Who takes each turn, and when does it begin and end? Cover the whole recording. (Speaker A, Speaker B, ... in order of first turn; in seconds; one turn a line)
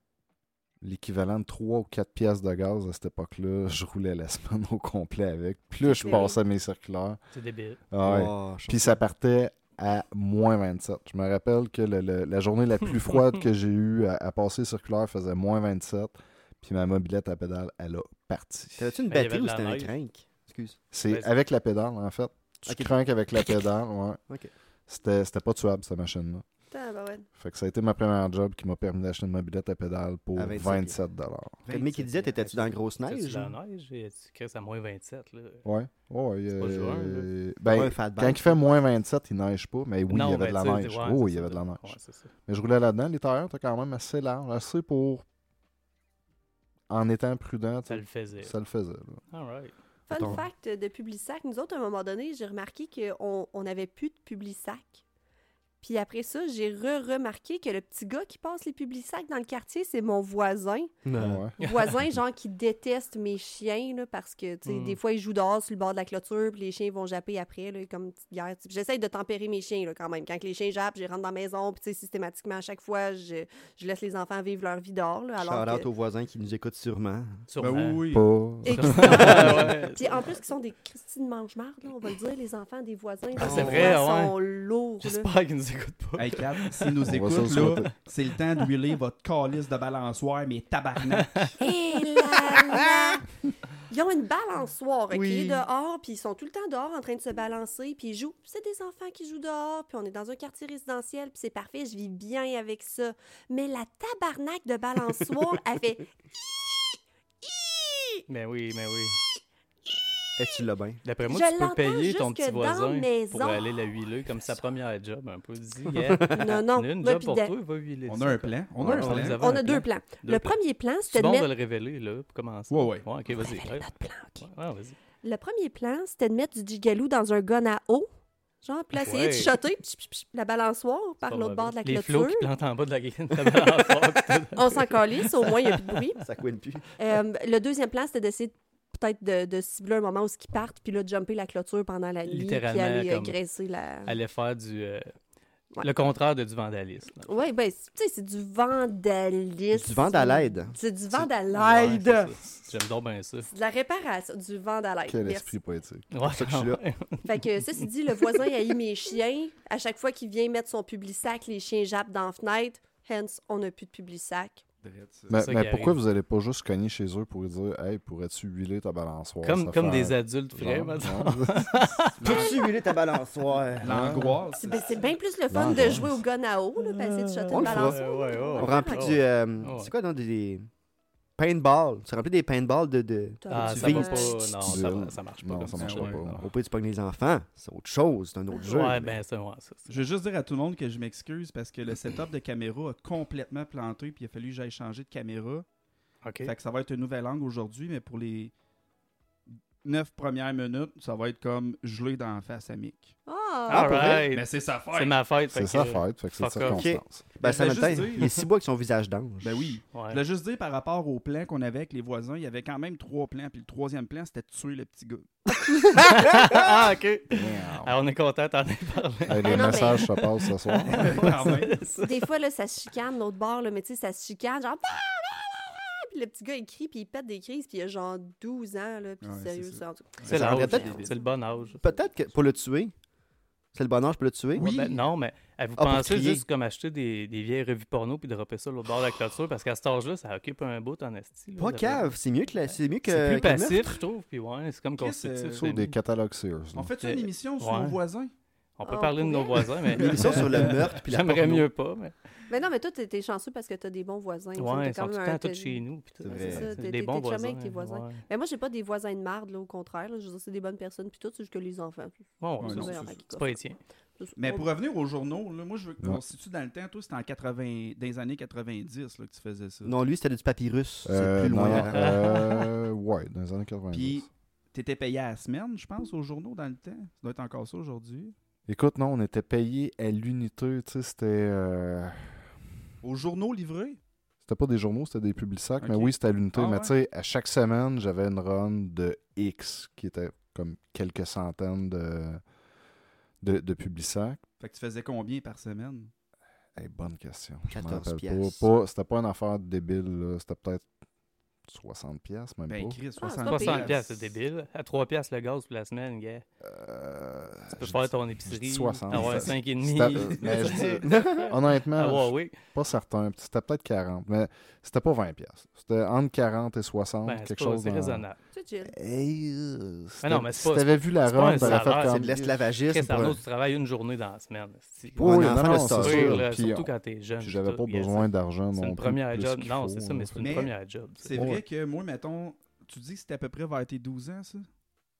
Speaker A: 0.8-7.2
Speaker B: 5.9-6.4
Speaker C: 6.0-6.3
Speaker D: 7.3-7.8
Speaker A: 7.9-19.0
Speaker C: 8.0-9.0
Speaker C: 18.8-20.8
Speaker D: 19.1-19.9
Speaker A: 20.9-24.2
Speaker D: 21.1-21.3
Speaker C: 22.7-23.0
Speaker A: 24.9-26.4
Speaker B: 26.7-27.3
Speaker A: 27.3-31.6
Speaker C: 30.4-31.0
Speaker E: 31.6-32.7
Speaker C: 31.7-33.5
Speaker D: 33.0-35.6
Speaker A: 35.6-42.0
Speaker D: 36.6-37.3
Speaker C: 37.7-38.6
Speaker D: 40.1-42.3
Speaker A: 42.5-45.2
Speaker A: 46.9-49.2
Speaker D: 47.9-48.5
Speaker D: 49.3-49.7
Speaker B: 50.1-55.0
Speaker C: 50.1-50.4
Speaker B: 55.8-60.9
Speaker C: 61.0-61.4
Speaker A: 61.2-61.5
Speaker B: 61.6-75.9
Speaker D: 61.6-61.9
Speaker D: 64.7-65.0
Speaker C: 75.4-77.5
Speaker D: 77.5-78.1
Speaker E: 77.6-78.3
Speaker A: 78.1-79.7
Speaker D: 78.6-80.3
Speaker B: 78.6-85.3
Speaker D: 83.4-84.3
Speaker C: 83.4-84.0
Speaker D: 85.0-87.9
Speaker E: 86.2-91.6
Speaker A: 87.0-87.9
Speaker D: 91.1-91.5
Speaker B: 91.6-93.2
Speaker C: 92.5-92.9
Speaker B: 93.9-106.1
Speaker C: 95.1-95.6
Speaker B: 107.4-108.2
Speaker D: 108.3-109.2
Speaker C: 110.4-111.0
Speaker D: 111.0-120.6
Speaker B: 111.2-113.7
Speaker B: 116.3-117.5
Speaker E: 118.0-119.6
Speaker C: 118.8-119.4
Speaker B: 119.4-121.5
Speaker D: 121.1-125.0
Speaker E: 122.7-123.1
Speaker B: 123.3-124.5
Speaker B: 125.2-128.1
Speaker B: 128.6-132.5
Speaker D: 129.0-129.5
Speaker D: 131.3-135.5
Speaker B: 134.5-136.2
Speaker C: 136.2-136.9
Speaker B: 137.0-144.1
Speaker D: 142.2-143.3
Speaker D: 144.0-145.1
Speaker D: 145.8-147.3
Speaker B: 147.2-152.3
Speaker C: 149.7-150.8
Speaker D: 151.5-153.5
Speaker B: 153.4-155.5
Speaker A: 155.1-156.1
Speaker D: 156.1-157.4
Speaker C: 156.2-156.8
Speaker B: 157.2-164.6
Speaker E: 164.8-165.4
Speaker A: 165.3-171.9
Speaker D: 165.4-166.0
Speaker D: 169.4-172.6
Speaker C: 172.2-174.4
Speaker B: 172.2-172.7
Speaker E: 173.8-175.0
Speaker A: 173.9-174.2
Speaker B: 174.6-179.2
Speaker A: 175.5-176.1
Speaker D: 176.8-179.9
Speaker C: 177.5-178.0
Speaker C: 178.6-180.7
Speaker C: 181.3-184.3
Speaker B: 183.4-184.6
Speaker D: 183.5-186.4
Speaker A: 184.6-186.5
Speaker E: 185.8-186.3
Speaker C: 186.3-189.1
Speaker A: 188.6-189.0
Speaker D: 188.7-190.1
Speaker E: 189.9-195.6
Speaker D: 196.2-196.5
Speaker E: 196.4-198.5
Speaker E: 199.8-203.2
Speaker B: 203.3-204.2
Speaker E: 203.7-205.2
Speaker D: 203.7-206.9
Speaker A: 205.5-207.2
Speaker C: 206.6-209.8
Speaker E: 207.4-208.4
Speaker E: 209.4-215.3
Speaker D: 209.9-210.2
Speaker D: 215.9-222.2
Speaker A: 217.3-218.0
Speaker A: 219.3-221.4
Speaker B: 219.4-220.1
Speaker E: 220.8-221.8
Speaker B: 221.9-231.9
Speaker E: 229.2-231.1
Speaker D: 230.2-231.8
Speaker C: 230.3-231.1
Speaker C: 231.8-232.9
Speaker C: 233.7-234.7
Speaker E: 234.5-235.1
Speaker D: 234.5-242.1
Speaker C: 235.8-236.4
Speaker C: 241.6-244.0
Speaker D: 242.7-245.9
Speaker E: 245.0-245.7
Speaker A: 245.6-246.9
Speaker E: 246.7-248.3
Speaker D: 247.0-248.0
Speaker D: 248.8-252.1
Speaker B: 248.8-249.9
Speaker C: 249.9-251.7
Speaker E: 249.9-250.9
Speaker B: 252.5-263.6
Speaker D: 254.6-258.2
Speaker E: 256.2-256.6
Speaker C: 256.2-256.7
Speaker D: 262.4-263.8
Speaker E: 262.6-263.2
Speaker B: 264.2-264.7
Speaker E: 264.4-269.9
Speaker C: 269.8-272.1
Speaker A: 271.0-274.2
Speaker D: 271.9-272.7
Speaker E: 273.9-278.3
Speaker A: 278.7-282.5
Speaker E: 283.0-284.0
Speaker A: 284.4-292.4
Speaker E: 285.8-286.9
Speaker A: 293.4-294.4
Speaker E: 294.6-296.1
Speaker A: 296.8-300.9
Speaker C: 297.7-298.7
Speaker A: 301.7-303.0
Speaker E: 302.7-304.3
Speaker B: 303.2-304.0
Speaker D: 303.4-306.4
Speaker A: 306.6-318.2
Speaker D: 307.7-312.6
Speaker E: 309.1-311.0
Speaker C: 311.0-311.5
Speaker D: 317.2-318.4
Speaker B: 318.5-318.9
Speaker A: 318.9-322.6
Speaker D: 320.2-322.3
Speaker C: 321.4-323.4
Speaker D: 322.9-331.3
Speaker C: 325.2-326.4
Speaker A: 325.2-330.6
Speaker E: 330.4-334.7
Speaker C: 331.3-331.6